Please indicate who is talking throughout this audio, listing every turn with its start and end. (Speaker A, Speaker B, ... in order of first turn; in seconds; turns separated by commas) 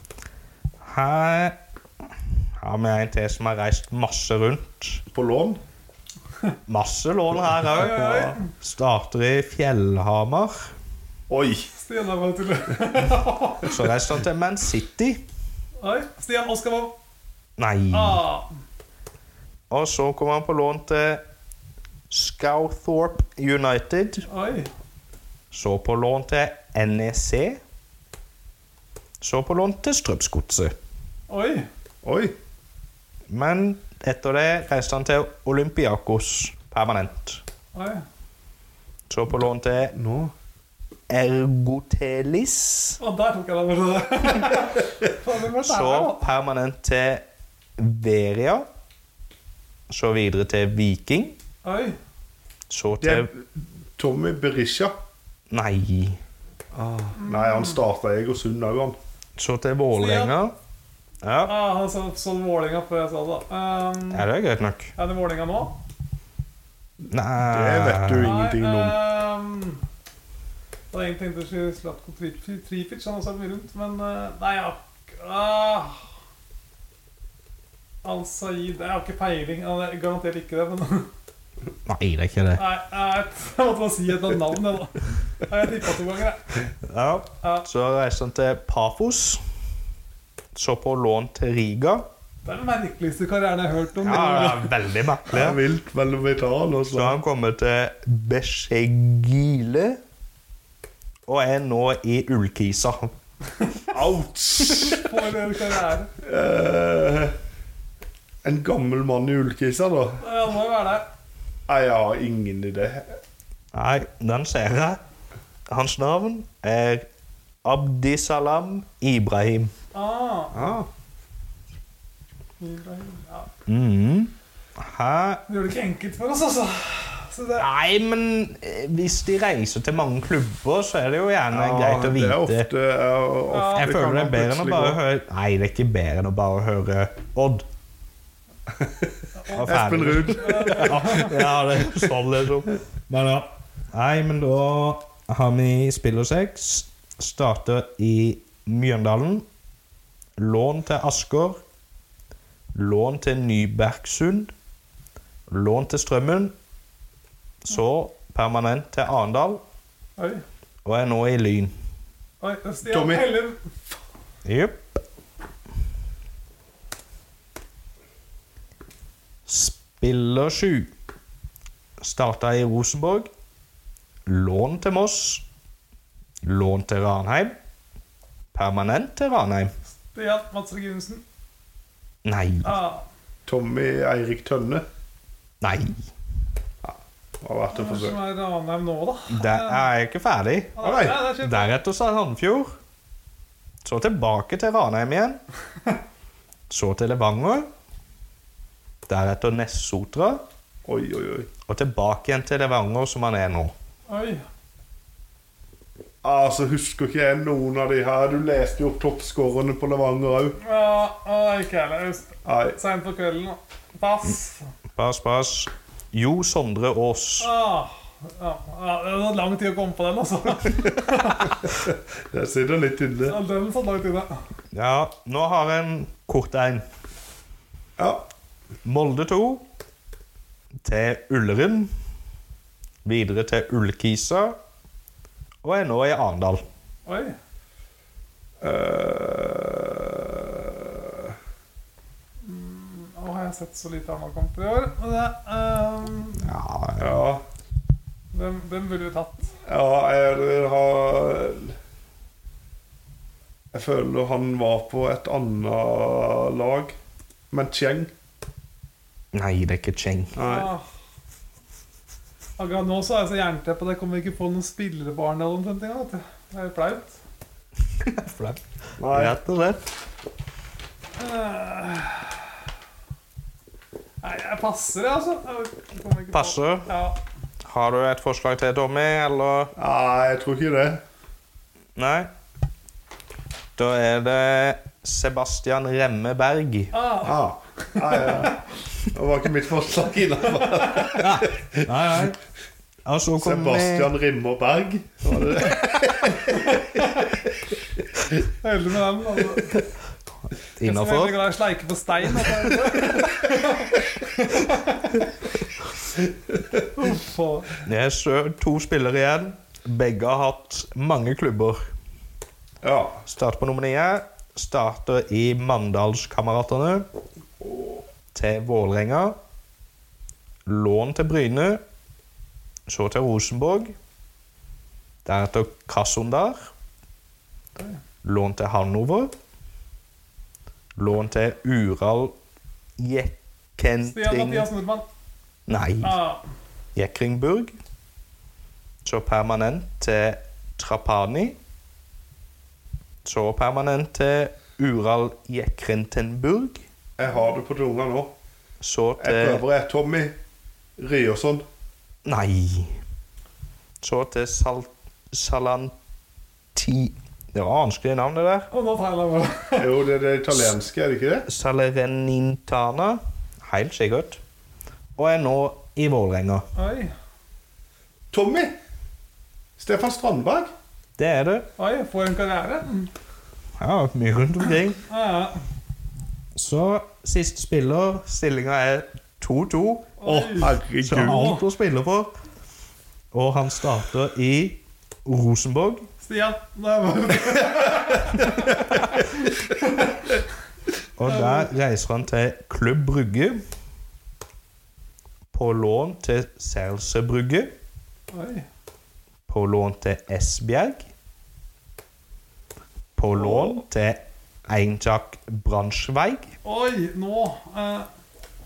Speaker A: 0.8-1.5, Speaker A: 2.6-5.0, Speaker B: 5.1-5.6, Speaker A: 6.7-10.7, Speaker C: 7.6-8.5, Speaker B: 11.3-11.7, Speaker C: 11.8-13.8, Speaker A: 13.6-15.2, Speaker C: 15.8-16.9, Speaker A: 17.6-18.2, Speaker C: 17.9-18.5, Speaker A: 19.7-21.2, Speaker A: 22.1-24.2, Speaker C: 24.3-24.7, Speaker A: 25.5-27.6, Speaker A: 29.2-30.7, Speaker C: 31.3-31.7, Speaker B: 32.0-32.3, Speaker A: 33.3-37.4, Speaker C: 37.7-38.0, Speaker A: 39.1-39.9, Speaker B: 39.9-40.3, Speaker A: 41.1-43.0, Speaker C: 43.0-46.2, Speaker A: 45.6-47.2, Speaker A: 47.8-48.6, Speaker A: 49.9-51.4, Speaker C: 51.6-52.0, Speaker A: 52.7-53.3, Speaker B: 53.0-54.9, Speaker A: 55.5-56.2, Speaker B: 56.7-59.0, Speaker C: 57.2-57.8, Speaker A: 59.4-60.5, Speaker C: 59.9-60.3, Speaker A: 61.2-61.6, Speaker C: 61.4-64.3, Speaker A: 64.1-64.9, Speaker C: 65.0-65.8, Speaker A: 67.1-68.3, Speaker B: 67.4-69.0, Speaker C: 68.2-69.8, Speaker C: 70.9-76.0, Speaker C: 78.0-81.1, Speaker A: 81.8-82.6, Speaker C: 82.5-86.4, Speaker A: 86.9-89.4, Speaker A: 90.5-92.0, Speaker C: 92.4-94.7, Speaker A: 94.0-95.6, Speaker B: 95.3-97.2, Speaker A: 96.9-100.0, Speaker A: 101.2-103.1, Speaker B: 103.9-105.0, Speaker C: 104.7-106.1, Speaker B: 106.2-107.3, Speaker B: 108.4-110.2, Speaker C: 110.2-111.1, Speaker B: 111.7-113.1, Speaker A: 113.7-115.0, Speaker A: 115.7-117.0, Speaker A: 117.6-119.7, Speaker C: 119.9-120.7, Speaker B: 120.5-120.9, Speaker C: 122.6-123.5, Speaker A: 123.7-125.4, Speaker C: 125.5-127.7, Speaker A: 127.6-132.7, Speaker B: 131.5-135.0, Speaker C: 133.5-134.0, Speaker A: 133.7-137.6, Speaker C: 139.4-141.4, Speaker A: 139.5-149.4, Speaker B: 139.6-141.2, Speaker A: 150.4-151.6, Speaker A: 152.7-154.5, Speaker A: 155.5-156.5, Speaker A: 157.7-159.6, Speaker C: 160.2-160.4, Speaker A: 160.8-161.7, Speaker C: 162.4-163.6, Speaker B: 162.8-163.3, Speaker A: 164.4-164.8, Speaker A: 169.5-170.9, Speaker A: 172.0-173.3, Speaker A: 174.3-175.4, Speaker A: 176.4-177.5, Speaker A: 178.5-179.7, Speaker C: 180.1-181.2, Speaker A: 182.2-182.7, Speaker C: 182.6-183.0, Speaker B: 183.5-184.8, Speaker A: 185.6-185.9, Speaker B: 186.8-188.2, Speaker C: 187.7-189.8, Speaker A: 189.3-192.7, Speaker C: 190.8-191.7, Speaker B: 190.8-191.2, Speaker A: 193.8-195.4, Speaker A: 196.7-197.7, Speaker A: 199.1-200.4, Speaker B: 200.8-201.5, Speaker A: 201.7-203.7, Speaker C: 204.1-204.4, Speaker B: 206.2-210.6, Speaker C: 210.6-214.7, Speaker B: 212.4-212.8, Speaker A: 214.9-217.5, Speaker C: 217.4-221.6, Speaker B: 221.7-223.4, Speaker C: 223.3-224.4, Speaker A: 224.7-226.8, Speaker B: 228.0-228.2, Speaker A: 228.8-229.6, Speaker A: 230.8-231.9, Speaker A: 233.0-234.5, Speaker A: 235.6-236.6, Speaker C: 237.1-237.3, Speaker B: 238.6-241.3, Speaker C: 242.4-246.5, Speaker A: 246.4-247.1, Speaker B: 247.0-247.4, Speaker C: 248.3-249.6, Speaker B: 249.7-251.7, Speaker B: 253.7-256.9, Speaker B: 257.5-258.1, Speaker A: 259.3-260.4, Speaker B: 260.4-260.7, Speaker C: 260.4-260.8, Speaker C: 262.6-267.2, Speaker A: 268.1-269.8, Speaker B: 269.0-269.4, Speaker C: 271.2-272.4, Speaker C: 274.2-277.2, Speaker A: 276.3-276.9, Speaker A: 277.6-279.7, Speaker B: 279.8-281.0, Speaker A: 281.9-282.3, Speaker A: 283.8-286.9, Speaker C: 286.9-288.5, Speaker B: 287.2-288.5, Speaker B: 289.1-291.7, Speaker A: 291.1-292.4, Speaker A: 293.1-294.1, Speaker B: 293.4-296.6, Speaker C: 296.4-297.1, Speaker C: 298.6-299.8, Speaker A: 300.8-301.4, Speaker C: 300.8-305.2, Speaker C: 306.9-307.7, Speaker A: 307.9-311.8, Speaker B: 312.8-313.2, Speaker A: 313.2-317.1, Speaker B: 317.6-318.0, Speaker A: 318.3-319.4, Speaker A: 320.7-321.8, Speaker A: 322.9-323.9, Speaker A: 325.2-326.6, Speaker A: 328.2-329.3, Speaker A: 331.0-332.3, Speaker A: 333.0-334.7, Speaker C: 334.0-335.0, Speaker A: 335.7-336.1, Speaker C: 336.0-336.4, Speaker A: 336.9-337.7, Speaker A: 339.0-341.6, Speaker A: 343.2-346.8, Speaker B: 347.2-348.3, Speaker A: 348.8-349.6, Speaker B: 349.2-350.3, Speaker B: 351.0-351.6, Speaker A: 352.2-352.9, Speaker A: 354.0-355.9, Speaker A: 356.7-358.7, Speaker C: 358.7-359.9, Speaker B: 359.8-361.4, Speaker A: 361.5-364.4, Speaker A: 365.1-366.6, Speaker C: 366.8-367.1, Speaker B: 368.3-368.7, Speaker B: 369.8-370.7, Speaker A: 371.2-371.7, Speaker C: 371.8-373.1, Speaker A: 373.8-375.0, Speaker C: 375.1-375.6, Speaker A: 376.6-380.1, Speaker C: 380.2-381.6, Speaker B: 380.2-381.5, Speaker A: 381.0-382.3, Speaker A: 383.3-386.0, Speaker C: 386.2-390.1, Speaker A: 391.2-393.6, Speaker C: 391.2-391.7, Speaker A: 395.5-397.7, Speaker C: 398.3-398.6, Speaker A: 399.5-401.1, Speaker A: 403.1-406.5, Speaker B: 403.4-403.7, Speaker C: 406.6-408.1